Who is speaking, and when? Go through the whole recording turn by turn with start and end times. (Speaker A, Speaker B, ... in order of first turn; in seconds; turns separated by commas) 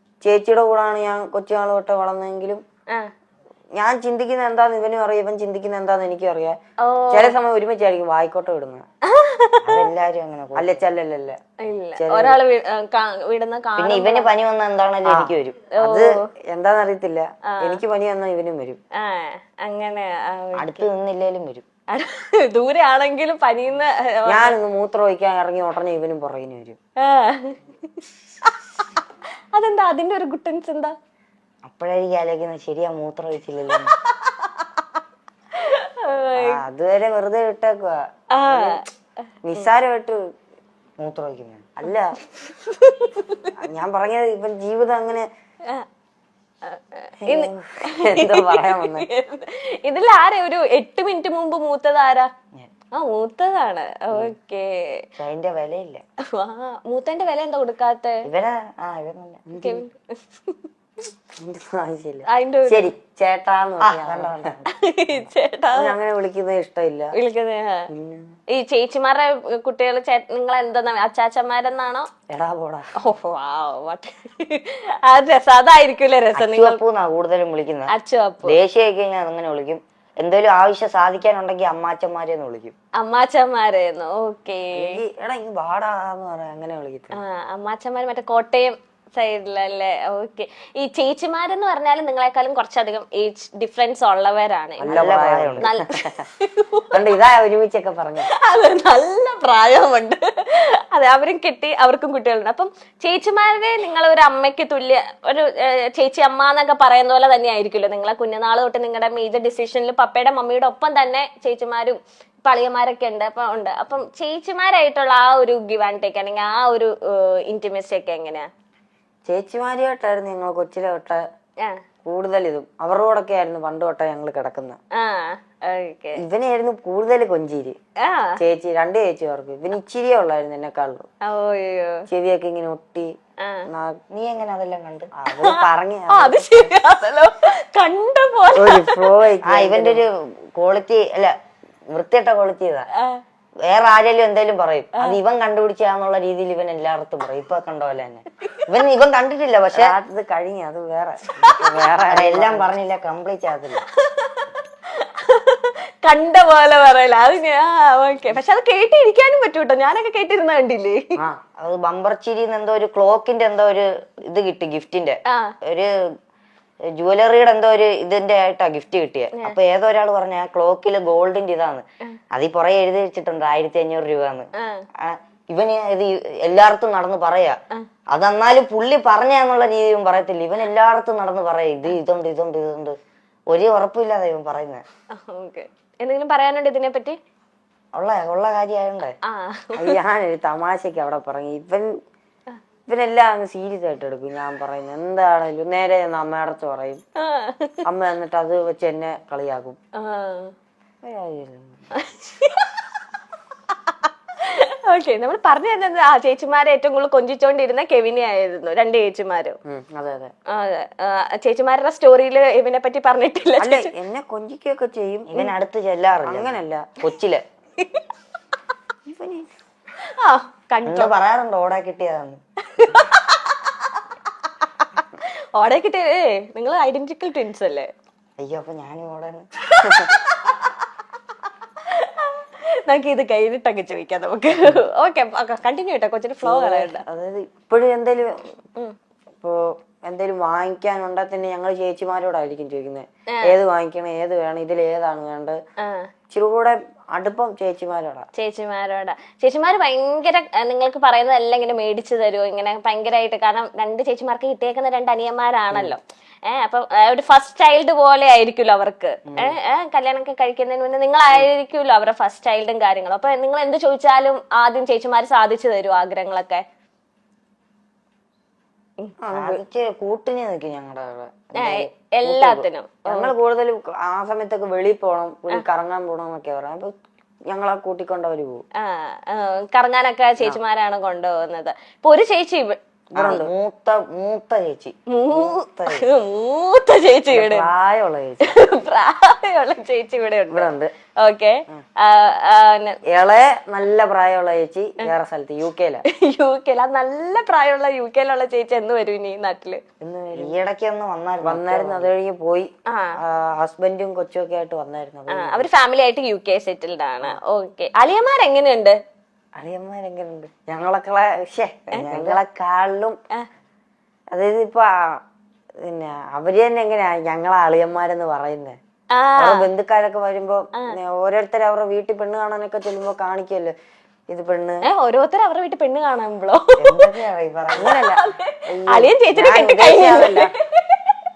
Speaker A: 0.2-2.6, Speaker A: 3.8-6.6, Speaker B: 6.8-7.3, Speaker A: 7.1-8.8, Speaker B: 9.1-9.9, Speaker C: 9.6-10.8, Speaker A: 10.5-11.4, Speaker B: 11.6-14.3, Speaker A: 11.9-12.4, Speaker C: 13.8-15.6, Speaker A: 15.0-18.8, Speaker B: 15.8-16.1, Speaker B: 17.5-17.8, Speaker B: 19.0-20.9, Speaker C: 20.6-21.6, Speaker B: 21.9-24.5, Speaker A: 24.3-26.8, Speaker B: 27.1-27.6, Speaker B: 28.5-28.8, Speaker B: 29.5-30.9, Speaker C: 31.6-33.9, Speaker B: 35.6-36.6, Speaker A: 36.3-38.8, Speaker B: 38.4-38.8, Speaker A: 39.4-40.2, Speaker C: 41.0-41.7, Speaker A: 41.8-42.2, Speaker B: 42.5-43.5, Speaker A: 43.6-45.3, Speaker B: 46.6-52.3, Speaker A: 47.3-49.1, Speaker B: 52.9-54.7, Speaker C: 55.2-56.0, Speaker B: 56.4-58.2, Speaker C: 58.2-59.4, Speaker A: 59.5-59.8, Speaker B: 59.6-60.0, Speaker A: 61.4-64.5, Speaker B: 62.3-62.9, Speaker C: 63.8-64.7, Speaker B: 64.7-66.0, Speaker A: 65.7-67.1, Speaker B: 67.1-67.8, Speaker A: 67.9-68.2, Speaker B: 68.5-72.1, Speaker A: 72.3-72.8, Speaker B: 73.0-76.8, Speaker C: 76.3-77.9, Speaker B: 77.9-78.6, Speaker C: 78.4-82.7, Speaker B: 83.0-84.9, Speaker A: 84.7-87.2, Speaker B: 87.1-95.0, Speaker A: 94.8-96.1, Speaker C: 94.9-95.7, Speaker B: 95.6-97.2, Speaker A: 96.9-98.3, Speaker B: 98.2-118.5, Speaker A: 119.2-121.2, Speaker A: 122.0-124.8, Speaker B: 125.0-126.2, Speaker A: 126.2-127.8, Speaker A: 128.4-131.1, Speaker B: 131.2-131.9, Speaker A: 132.1-133.1, Speaker A: 133.7-133.9, Speaker C: 134.1-135.1, Speaker A: 135.2-136.7, Speaker B: 135.3-139.0, Speaker A: 138.5-140.0, Speaker C: 139.4-141.3, Speaker C: 141.9-142.9, Speaker C: 143.7-149.9, Speaker A: 149.7-152.7, Speaker C: 152.1-153.8, Speaker B: 154.1-154.5, Speaker B: 155.2-161.0, Speaker C: 161.6-165.9, Speaker B: 165.3-165.5, Speaker C: 166.9-174.5, Speaker B: 174.6-174.8, Speaker C: 175.0-177.6, Speaker C: 178.1-182.9, Speaker C: 183.5-184.8, Speaker B: 185.1-187.2, Speaker C: 187.9-189.1, Speaker B: 189.3-189.9, Speaker A: 189.8-191.9, Speaker A: 192.9-197.0, Speaker B: 197.2-197.8, Speaker A: 197.8-199.8, Speaker B: 200.0-200.5, Speaker A: 201.0-201.8, Speaker B: 202.0-202.6, Speaker B: 203.9-209.6, Speaker A: 209.7-210.3, Speaker B: 210.5-213.9, Speaker A: 213.6-215.5, Speaker C: 215.3-217.4, Speaker A: 216.2-216.9, Speaker A: 219.1-219.5, Speaker B: 220.2-221.1, Speaker C: 220.8-222.4, Speaker B: 222.7-223.6, Speaker B: 225.6-227.9, Speaker C: 228.4-229.4, Speaker B: 229.8-230.7, Speaker B: 231.9-237.0, Speaker A: 236.4-238.5, Speaker A: 239.4-245.6, Speaker A: 246.3-248.3, Speaker B: 248.4-266.6, Speaker C: 259.3-259.5, Speaker A: 269.2-269.6, Speaker C: 269.3-272.6, Speaker B: 271.6-273.3, Speaker A: 273.1-276.9, Speaker A: 277.5-278.6, Speaker B: 278.8-282.8, Speaker A: 283.1-283.5, Speaker C: 283.1-286.1, Speaker B: 285.1-287.7, Speaker A: 287.3-288.6, Speaker B: 288.4-293.0, Speaker A: 290.5-290.9, Speaker A: 293.1-296.0, Speaker B: 296.1-299.8, Speaker A: 300.0-300.6, Speaker C: 300.3-302.1, Speaker A: 301.4-305.7, Speaker B: 305.3-309.0, Speaker A: 309.6-313.1, Speaker C: 311.9-312.4, Speaker A: 314.3-315.2, Speaker A: 315.8-318.8, Speaker B: 319.1-319.7, Speaker A: 319.4-323.7, Speaker A: 324.3-324.8, Speaker B: 324.9-327.1, Speaker C: 326.8-327.9, Speaker A: 327.8-330.5, Speaker B: 327.8-331.1